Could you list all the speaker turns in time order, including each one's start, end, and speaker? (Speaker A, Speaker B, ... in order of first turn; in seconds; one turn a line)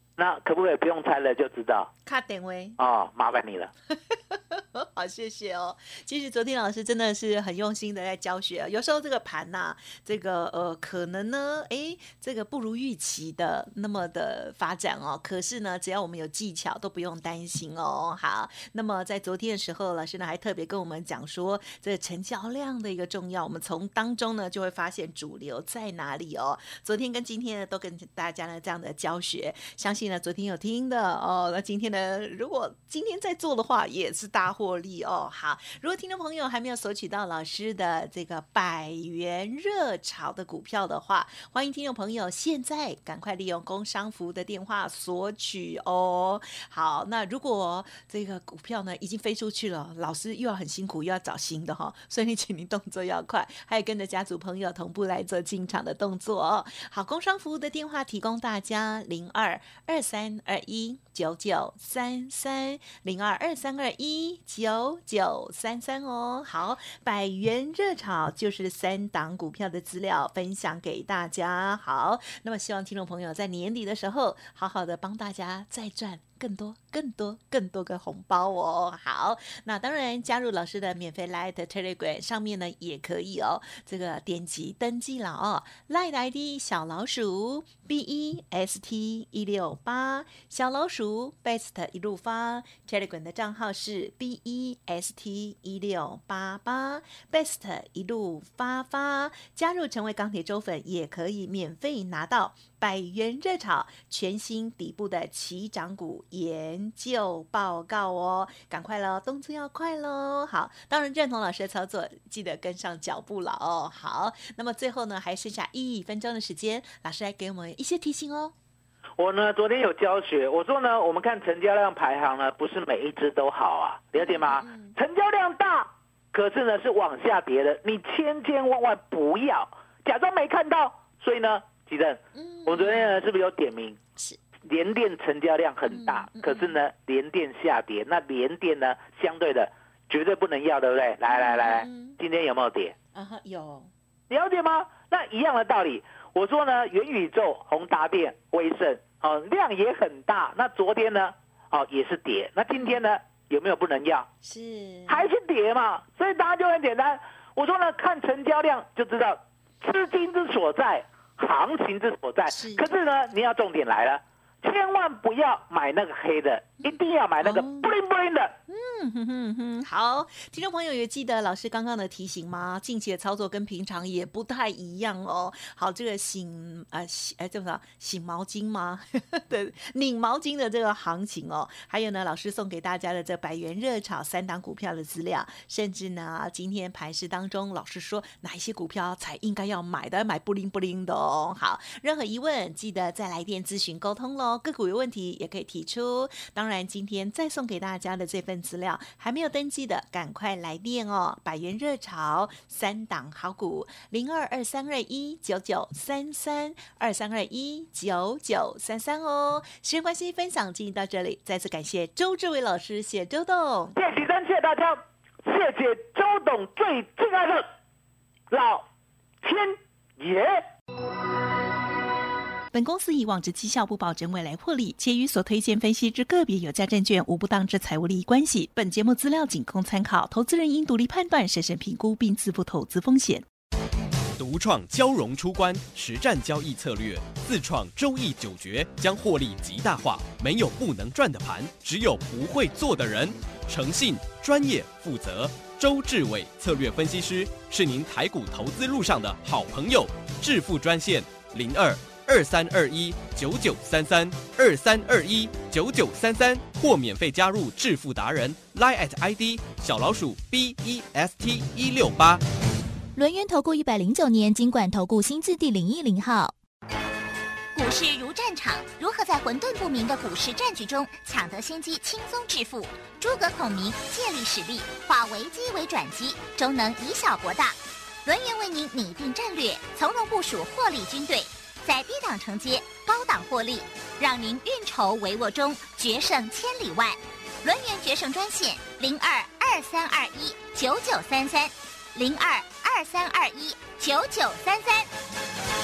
Speaker A: 0.2-1.9
Speaker B: 2.0-2.8
Speaker A: 2.8-3.7
Speaker B: 3.9-118.5
Speaker A: 119.2-134.0
Speaker B: 124.2-125.0
Speaker B: 132.3-133.2
Speaker A: 134.7-143.0
Speaker B: 135.9-136.8
Speaker B: 141.3-142.2
Speaker B: 143.1-143.9
Speaker A: 144.3-154.3
Speaker B: 154.4-155.3
Speaker A: 155.1-168.6
Speaker B: 162.5-162.9
Speaker B: 166.8-167.9
Speaker B: 168.7-214.0
Speaker A: 213.9-217.7
Speaker A: 218.5-218.8
Speaker A: 219.4-220.6
Speaker B: 222.7-233.5
Speaker C: 234.4-262.4
Speaker D: 263.2-266.6
Speaker E: 267.8-295.1